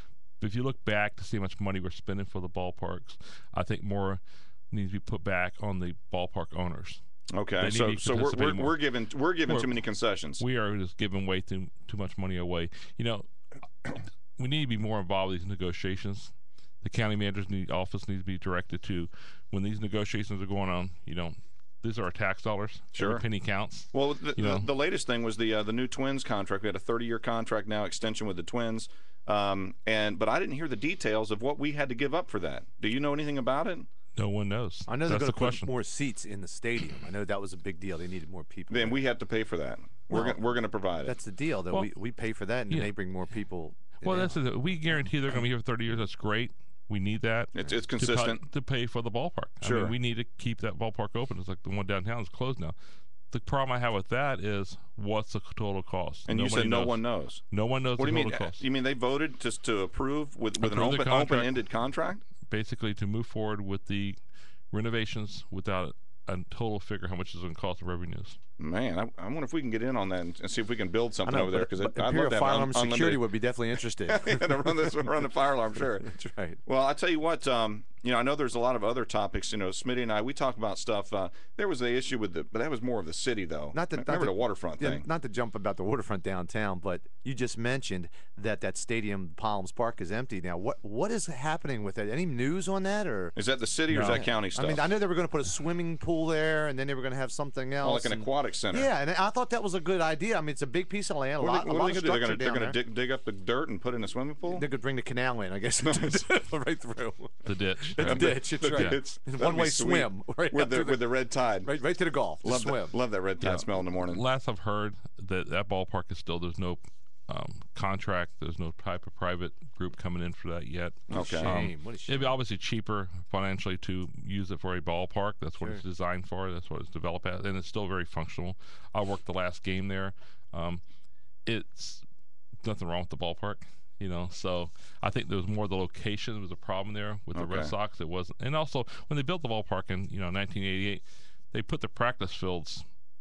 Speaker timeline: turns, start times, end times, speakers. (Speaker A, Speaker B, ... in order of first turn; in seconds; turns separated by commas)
Speaker A: 0.4-7.0, Speaker B: 7.3-10.4, Speaker A: 7.6-8.8, Speaker A: 9.5-9.8, Speaker A: 10.4-13.2, Speaker A: 13.9-24.7, Speaker B: 22.9-23.2, Speaker B: 23.9-33.9, Speaker A: 34.1-35.7, Speaker C: 34.9-39.0, Speaker B: 38.7-41.1, Speaker C: 40.1-40.4, Speaker C: 41.0-44.4, Speaker A: 44.0-52.7, Speaker B: 47.5-48.5, Speaker B: 49.6-49.9, Speaker A: 53.3-58.6, Speaker B: 56.3-57.4, Speaker B: 58.0-62.2, Speaker A: 60.6-61.5, Speaker A: 62.5-64.2, Speaker A: 64.7-68.4, Speaker B: 68.6-73.3, Speaker C: 71.2-74.9, Speaker B: 74.0-76.1, Speaker C: 76.0-76.6, Speaker B: 76.7-85.0, Speaker C: 83.7-93.3, Speaker B: 93.3-94.9, Speaker A: 93.9-94.2, Speaker C: 93.9-102.8, Speaker B: 97.8-98.9, Speaker B: 101.4-104.7, Speaker C: 104.5-111.1, Speaker B: 105.8-106.2, Speaker A: 107.4-109.0, Speaker B: 108.0-111.7, Speaker C: 111.6-113.0, Speaker B: 112.4-114.2, Speaker A: 113.4-130.8, Speaker B: 121.1-121.6, Speaker C: 121.1-122.4, Speaker A: 131.4-132.0, Speaker A: 132.6-142.8, Speaker B: 137.3-137.7